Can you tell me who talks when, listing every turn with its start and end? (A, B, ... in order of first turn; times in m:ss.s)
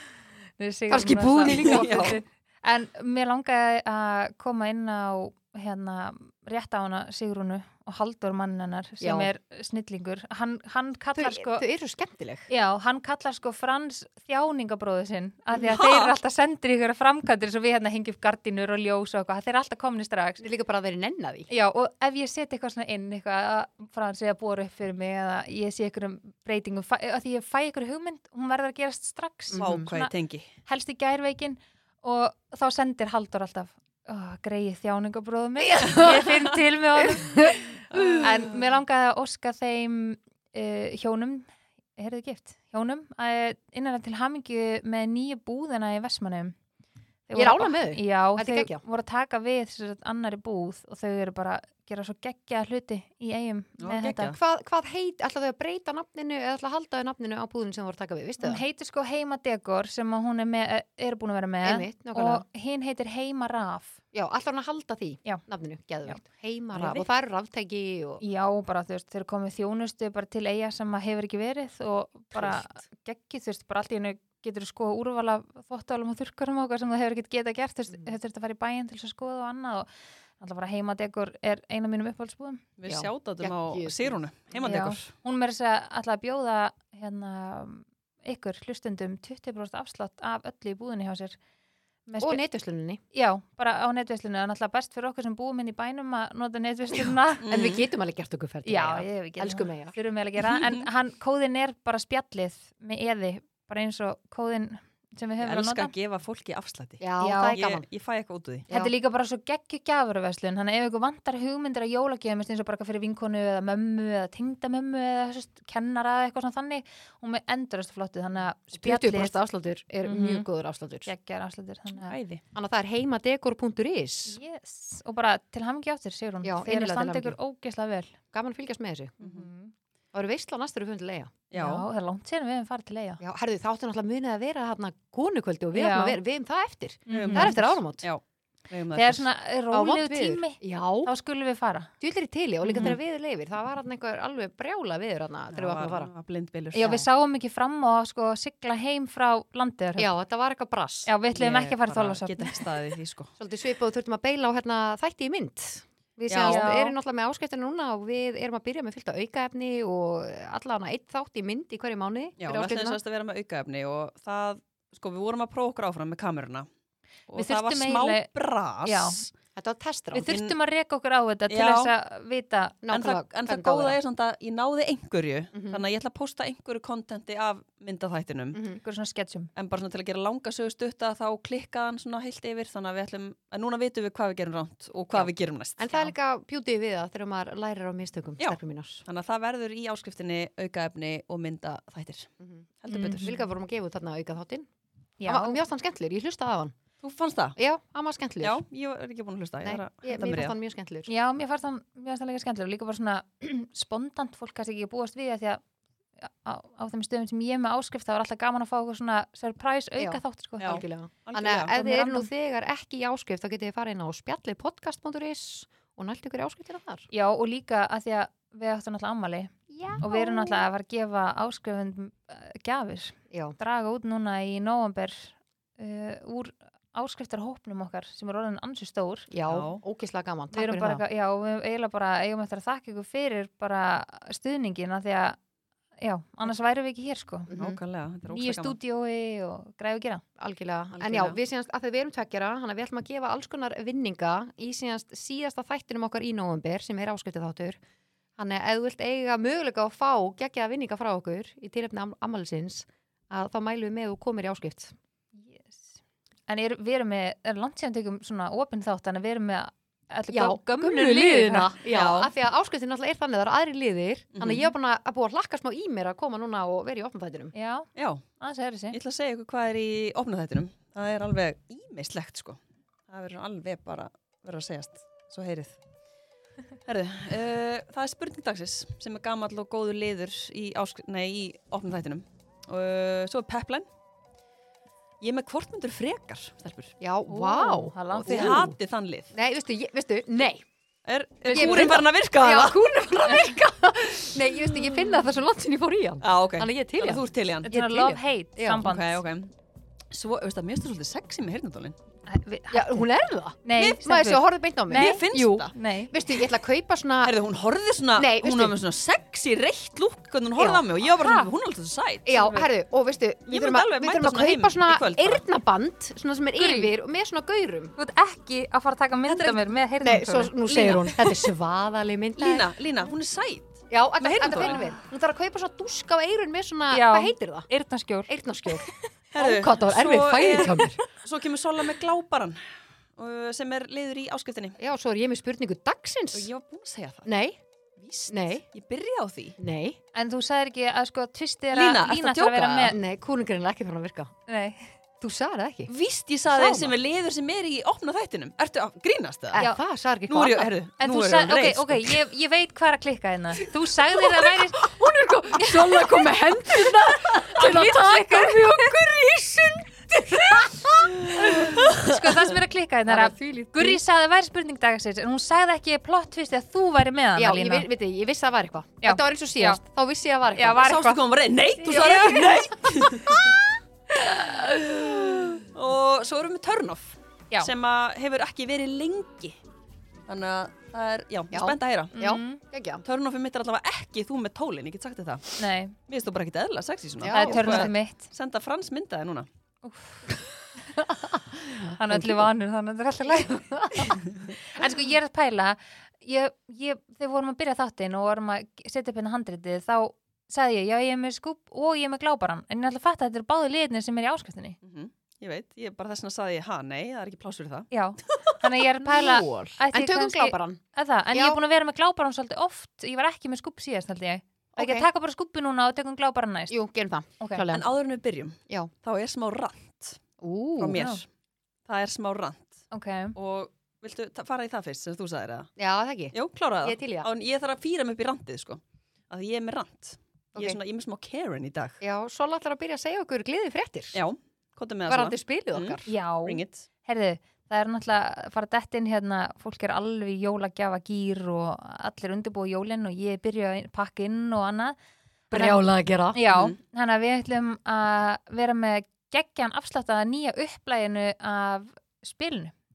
0:00.6-0:11.6 A
0:00.9-0:02.2 B
0:01.4-0:02.2 C
0:09.0-0:09.3 B
0:11.2-0:12.5 B
0:12.5-0:20.4 A
0:15.6-0:16.1 C
0:20.4-0:21.5 B
0:21.5-0:30.1 A
0:29.5-0:29.9 B
0:29.6-0:30.5 C
0:30.6-0:37.6 A
0:35.7-0:36.3 B
0:37.0-0:38.1 B
0:37.9-0:38.3 C
0:38.2-0:46.6 A
0:47.3-0:54.4 A
0:47.3-0:48.8 B
0:53.8-0:54.4 C
0:54.3-0:58.6 B
0:58.4-1:04.0 A
1:01.6-1:02.4 B
1:04.1-1:08.2 B
1:06.7-1:07.0 C
1:08.2-1:22.6 A
1:12.3-1:12.7 B
1:22.8-1:25.1 C
1:22.8-1:24.7 B
1:24.6-1:31.4 A
1:32.1-1:32.4 A
1:32.2-1:33.0 B
1:33.1-1:37.5 A
1:37.4-1:37.8 C
1:37.4-1:40.0 B
1:38.6-1:45.9 A
1:40.4-1:40.9 C
1:45.4-1:48.7 C
1:47.0-1:47.8 B
1:47.2-1:47.6 A
1:48.7-1:59.4 A
1:58.7-2:01.1 B
2:00.0-2:00.4 A
2:01.0-2:02.1 A
2:02.0-2:02.4 C
2:02.5-2:04.4 B
2:04.3-2:08.2 A
2:06.4-2:07.4 B
2:08.3-2:09.2 B
2:09.2-2:09.5 C
2:09.2-2:09.7 A
2:10.1-2:11.4 B
2:11.5-2:11.8 C
2:11.5-2:13.2 A
2:13.2-2:18.1 B
2:15.8-2:16.2 A
2:17.1-2:17.6 A
2:17.1-2:19.3 C
2:18.9-2:21.9 A
2:19.7-2:21.1 B
2:22.0-2:26.1 B
2:22.6-2:22.9 A
2:25.5-2:26.9 C
2:26.7-2:30.1 A
2:26.8-2:27.1 B
2:30.0-2:31.1 B
2:31.1-2:32.7 A
2:31.3-2:33.3 C
2:33.4-2:43.0 B
2:36.2-2:36.9 A
2:36.3-2:36.6 C
2:42.4-2:46.7 C
2:47.3-2:49.3 C
2:47.3-2:48.3 A
2:48.8-2:49.2 A
2:49.6-2:50.3 B
2:50.1-2:52.8 A
2:50.2-2:50.6 C
2:51.5-2:51.9 C
2:52.8-2:54.0 B
2:52.9-2:58.6 C
2:55.5-2:55.8 B
2:58.5-2:58.8 B
2:58.8-2:59.5 A
2:59.6-3:06.1 C
3:05.1-3:09.0 B
3:08.4-3:12.3 C
3:12.4-3:14.7 B
3:12.8-3:13.3 C
3:12.9-3:13.3 A
3:15.2-3:15.6 A
3:15.2-3:16.8 B
3:17.0-3:17.6 C
3:17.6-3:18.6 B
3:18.4-3:20.6 C
3:19.6-3:21.1 B
3:21.1-3:25.6 A
3:26.2-3:30.8 A
3:30.0-3:37.1 B
3:30.6-3:31.8 C
3:31.7-3:32.3 A
3:37.1-3:49.3 A
3:39.7-3:40.6 B
3:43.3-3:43.6 B
3:49.3-3:51.0 B
3:49.5-3:49.8 C
3:50.5-3:55.4 A
3:56.0-3:57.5 A
3:57.5-3:57.8 B
3:57.6-3:58.8 C
3:58.3-4:00.2 A
4:00.4-4:07.8 B
4:01.0-4:01.4 C
4:08.4-4:14.9 B
4:15.4-4:21.7 A
4:20.3-4:27.5 B
4:21.9-4:22.3 C
4:24.3-4:24.7 C
4:27.5-4:29.0 A
4:28.0-4:28.2 C
4:28.9-4:35.8 C
4:36.8-4:43.8 C
4:45.2-4:46.9 C
4:47.0-4:48.8 B
4:47.3-4:48.6 A
4:48.1-4:49.3 C
4:49.3-4:50.6 B
4:51.0-4:52.8 C
4:51.5-4:52.0 A
4:51.5-4:58.8 B
4:56.2-4:57.7 C
4:57.7-4:59.2 A
4:58.8-4:59.5 C
5:00.1-5:02.0 C
5:02.3-5:03.0 A
5:02.7-5:07.4 B
5:03.6-5:06.1 A
5:04.9-5:05.7 C
5:07.2-5:12.7 C
5:08.1-5:08.8 B
5:10.6-5:10.8 B
5:11.0-5:11.5 A
5:12.2-5:17.9 B
5:13.5-5:15.4 C
5:16.6-5:16.9 A
5:18.0-5:20.5 A
5:19.3-5:19.8 C
5:20.0-5:22.7 B
5:20.6-5:21.5 C
5:22.4-5:24.8 C
5:23.9-5:27.7 B
5:26.9-5:28.3 A
5:28.3-5:31.0 B
5:29.3-5:32.6 C
5:33.2-5:34.8 C
5:34.8-5:36.5 B
5:36.3-5:37.3 C
5:37.2-5:37.6 B
5:38.0-5:39.6 C
5:38.3-5:38.6 B
5:39.6-5:40.0 B
5:40.1-5:43.0 A
5:41.7-5:43.0 C
5:42.8-5:44.3 B
5:44.5-5:44.9 A
5:45.2-5:45.9 B
5:45.9-5:49.6 C
5:46.5-5:46.9 B
5:49.5-5:50.7 B
5:50.3-5:52.2 C
5:51.0-5:54.8 A
5:54.2-6:01.8 B
5:57.3-5:58.9 A
6:01.2-6:02.0 C
6:01.4-6:07.8 A
6:03.1-6:04.0 B
6:07.4-6:10.9 B
6:09.0-6:09.8 A
6:10.6-6:11.2 A
6:10.8-6:13.6 C
6:11.8-6:13.6 B
6:11.9-6:12.6 A
6:14.4-6:19.6 C
6:20.3-6:22.2 C
6:21.5-6:23.0 B
6:22.2-6:22.6 A
6:23.0-6:29.5 C
6:25.6-6:25.9 A
6:27.2-6:27.9 B
6:27.3-6:28.3 A
6:29.8-6:30.2 A
6:31.0-6:32.5 B
6:31.9-6:44.8 A
6:33.3-6:34.2 B
6:44.8-6:48.6 C
6:47.9-6:56.8 A
6:49.0-6:50.8 B
6:51.3-6:51.6 B
6:56.7-6:57.9 B
6:57.7-7:00.2 C
7:00.4-7:01.1 B
7:00.8-7:01.2 C
7:00.9-7:01.2 A
7:01.8-7:02.8 C
7:02.9-7:03.3 A
7:03.3-7:05.7 C
7:05.8-7:07.3 B
7:06.3-7:12.0 C
7:12.0-7:14.2 B
7:14.1-7:16.8 C
7:15.1-7:16.1 B
7:16.1-7:25.0 A
7:25.5-7:32.7 A
7:25.5-7:26.4 B
7:26.5-7:26.8 C